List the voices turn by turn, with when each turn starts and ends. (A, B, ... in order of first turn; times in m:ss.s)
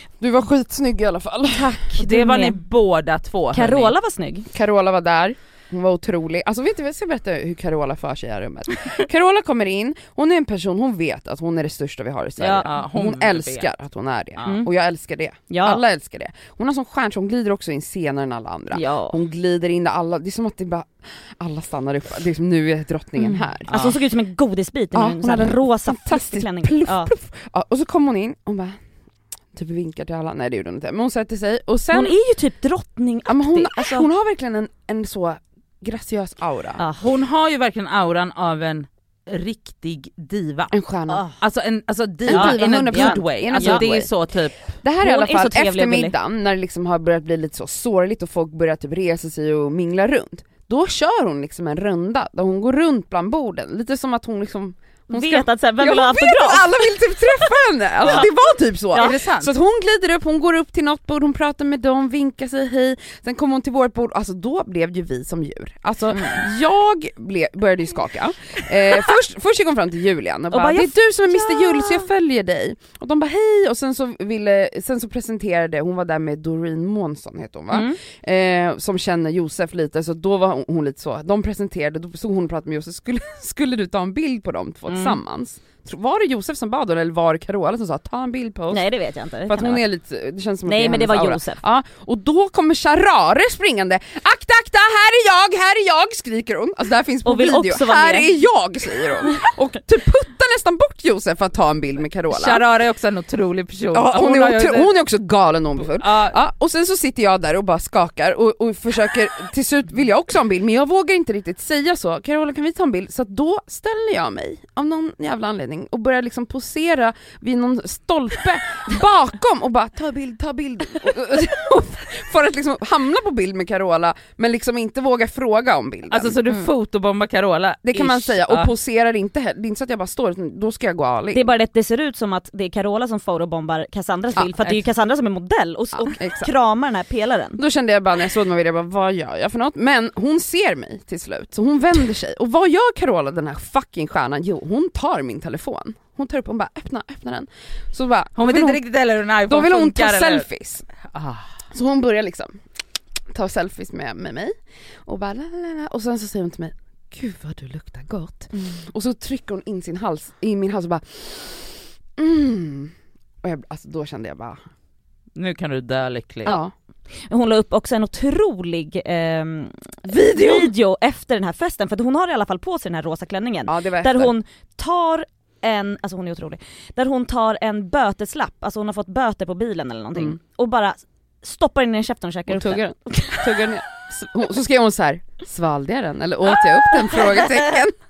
0:00.2-0:01.7 A
0:01.5-0:02.6 B
0:02.0-0:03.9 C
0:03.5-0:04.5 B
0:04.5-0:23.7 A
0:12.4-0:13.7 C
0:15.5-0:15.8 B
0:18.7-0:19.2 B
0:23.2-0:27.1 B
0:23.7-0:24.0 C
0:24.9-0:28.8 A
0:29.5-0:32.2 A
0:31.9-0:34.1 B
0:33.3-0:36.8 A
0:36.8-0:37.1 B
0:37.0-0:40.8 C
0:40.7-0:41.2 A
0:41.1-0:41.4 B
0:41.4-0:44.8 C
0:42.3-0:44.1 A
0:42.3-0:43.8 B
0:44.8-1:28.8 A
0:45.0-0:46.1 B
0:55.1-0:56.8 B
0:58.9-0:59.5 C
1:10.5-1:12.1 B
1:17.7-1:18.0 B
1:24.9-1:25.2 B
1:28.7-1:29.8 B
1:29.5-1:42.6 A
1:30.7-1:31.6 B
1:37.2-1:38.3 B
1:42.3-1:45.0 C
1:43.9-2:06.4 A
1:45.8-1:46.4 C
2:06.1-2:08.7 C
2:07.8-2:11.5 A
2:11.3-2:17.6 B
2:14.4-2:14.8 A
2:15.9-2:16.5 A
2:17.6-2:28.8 A
2:28.4-2:30.5 C
2:29.5-2:30.8 A
2:31.1-2:31.5 C
2:31.7-2:32.6 A
2:33.3-2:44.6 A
2:38.5-2:38.8 B
2:45.4-2:46.6 C
2:46.4-2:46.7 A
2:47.3-3:03.5 B
2:50.1-2:50.7 C
2:53.7-2:54.3 A
3:02.5-3:07.9 A
3:06.9-3:07.6 B